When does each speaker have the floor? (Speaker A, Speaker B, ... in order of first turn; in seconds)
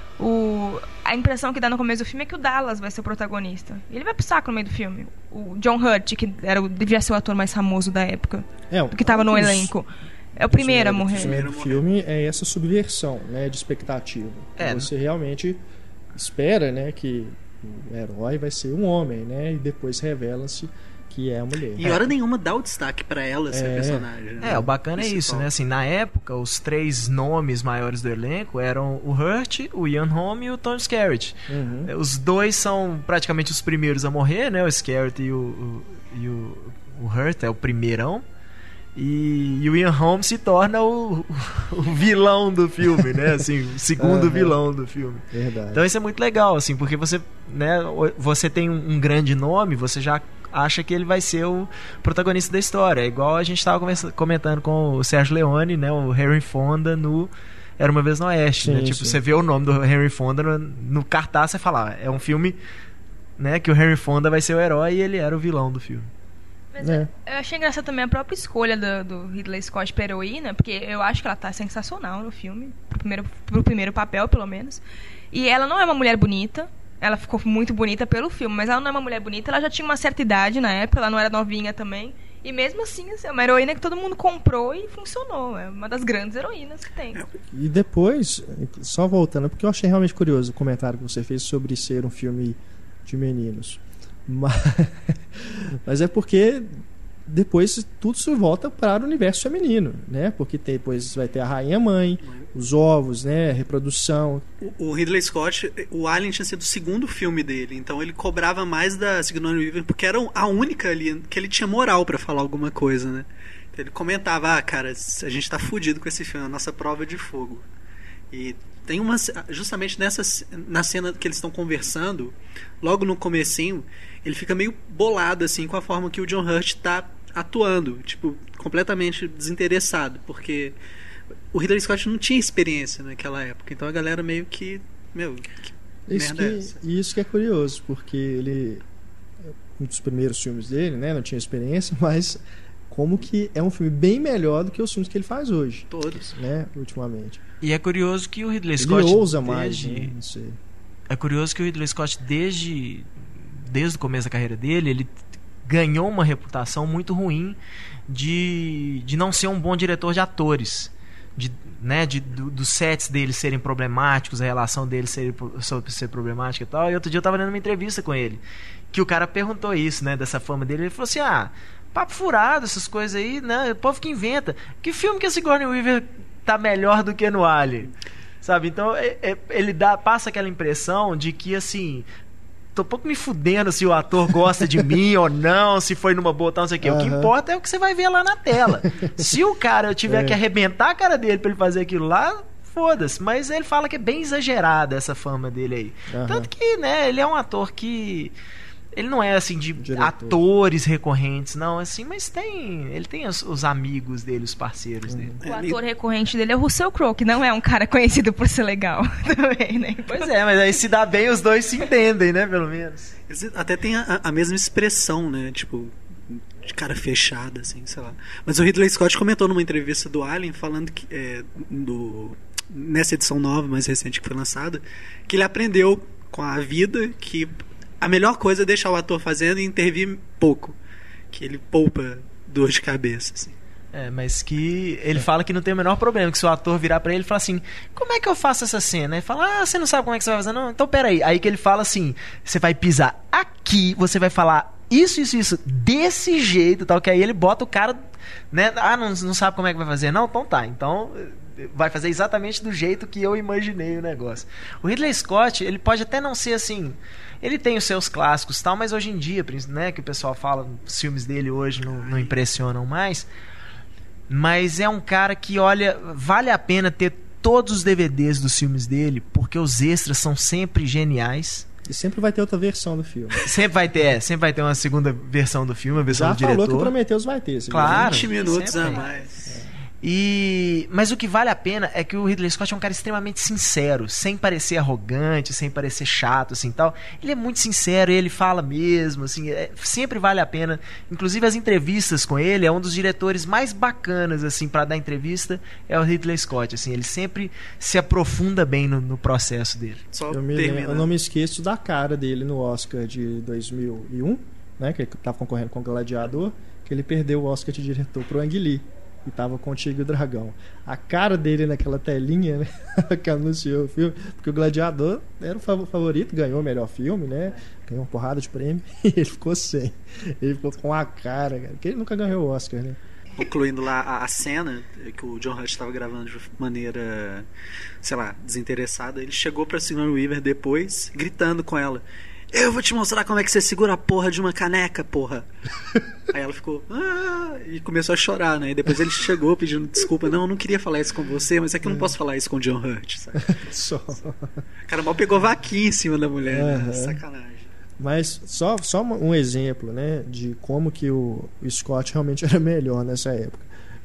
Speaker A: 0.2-11.4, 66.7-74.8, 75.3-87.2, 205.4-210.3, 278.2-279.3
Speaker B: 8.7-9.7, 10.4-15.6, 16.1-21.9, 23.5-24.1, 31.5-31.9, 44.0-44.6, 45.3-45.9, 58.6-59.2, 66.8-67.1, 87.5-104.5, 136.1-138.8, 139.8-147.4, 148.8-150.6, 186.8-187.3, 189.0-189.3, 190.1-190.4, 196.1-196.5, 199.8-200.4, 205.1-205.4, 271.9-273.5, 276.1-278.3, 279.5-279.8, 300.3-323.0, 341.8-342.1, 343.5-344.6, 346.5-347.2, 348.0-353.7
Speaker C: 11.1-11.8, 21.8-25.5, 104.6-117.7, 118.3-130.8, 131.5-136.7, 145.9-146.3, 205.4-205.8, 213.3-230.8, 231.3-233.6, 261.9-262.4, 277.8-279.6, 300.1-301.1, 323.4-327.5, 328.0-335.5, 336.3-343.6, 344.9-347.7
Speaker D: 14.6-14.9, 21.8-22.1, 24.4-38.2, 39.0-62.6, 63.4-66.1, 147.6-150.1, 151.1-155.1, 155.6-168.4, 168.9-182.1, 182.8-198.3, 198.9-205.3, 210.1-213.1, 233.9-248.0, 248.5-263.3, 264.3-271.7, 273.4-276.9, 277.7-279.1, 280.0-300.0